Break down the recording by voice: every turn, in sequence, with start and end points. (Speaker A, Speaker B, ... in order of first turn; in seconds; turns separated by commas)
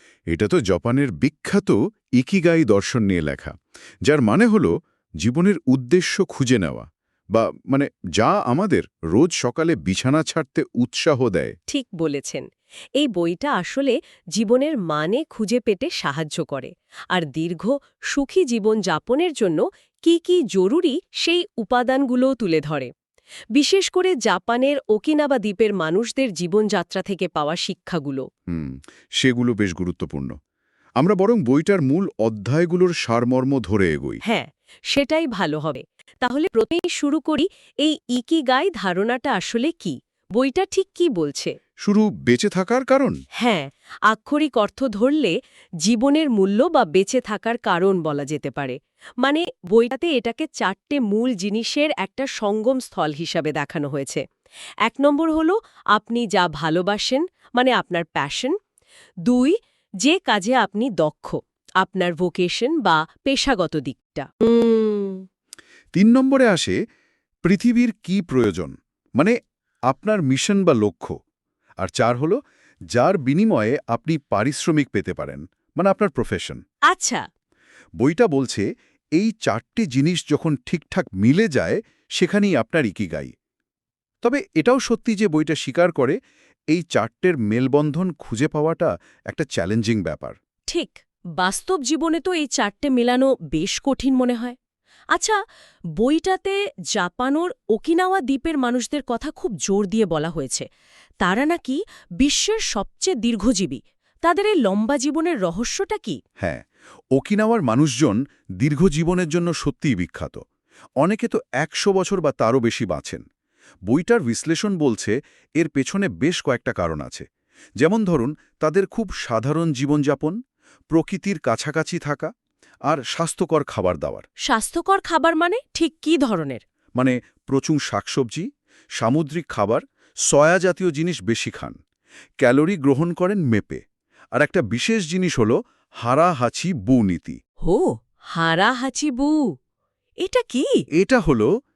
Speaker A: 0.3-3.5, Speaker A: 4.1-11.6, Speaker B: 11.7-12.5, Speaker B: 13.0-22.9, Speaker B: 23.6-28.3, Speaker A: 28.5-30.3, Speaker A: 31.0-34.2, Speaker B: 34.2-41.5, Speaker A: 41.8-43.2, Speaker B: 43.4-54.2, Speaker B: 54.9-58.6, Speaker B: 59.3-65.2, Speaker A: 66.0-66.8, Speaker A: 67.5-69.4, Speaker A: 69.9-71.2, Speaker A: 71.8-72.4, Speaker A: 72.9-76.6, Speaker B: 76.9-77.2, Speaker A: 78.0-78.7, Speaker A: 79.2-83.3, Speaker A: 84.2-86.2, Speaker A: 86.7-90.4, Speaker B: 90.7-94.6, Speaker B: 96.0-100.7, Speaker B: 101.2-106.2, Speaker A: 106.4-106.6, Speaker A: 107.2-110.4, Speaker A: 111.0-113.2, Speaker A: 113.9-117.3, Speaker A: 117.8-120.4, Speaker A: 120.9-122.3, Speaker A: 122.9-124.2, Speaker B: 124.5-126.6, Speaker A: 127.0-128.5, Speaker A: 129.0-131.8, Speaker A: 132.4-133.8, Speaker A: 134.4-137.4, Speaker B: 137.6-139.4, Speaker B: 140.2-140.8, Speaker A: 141.0-141.5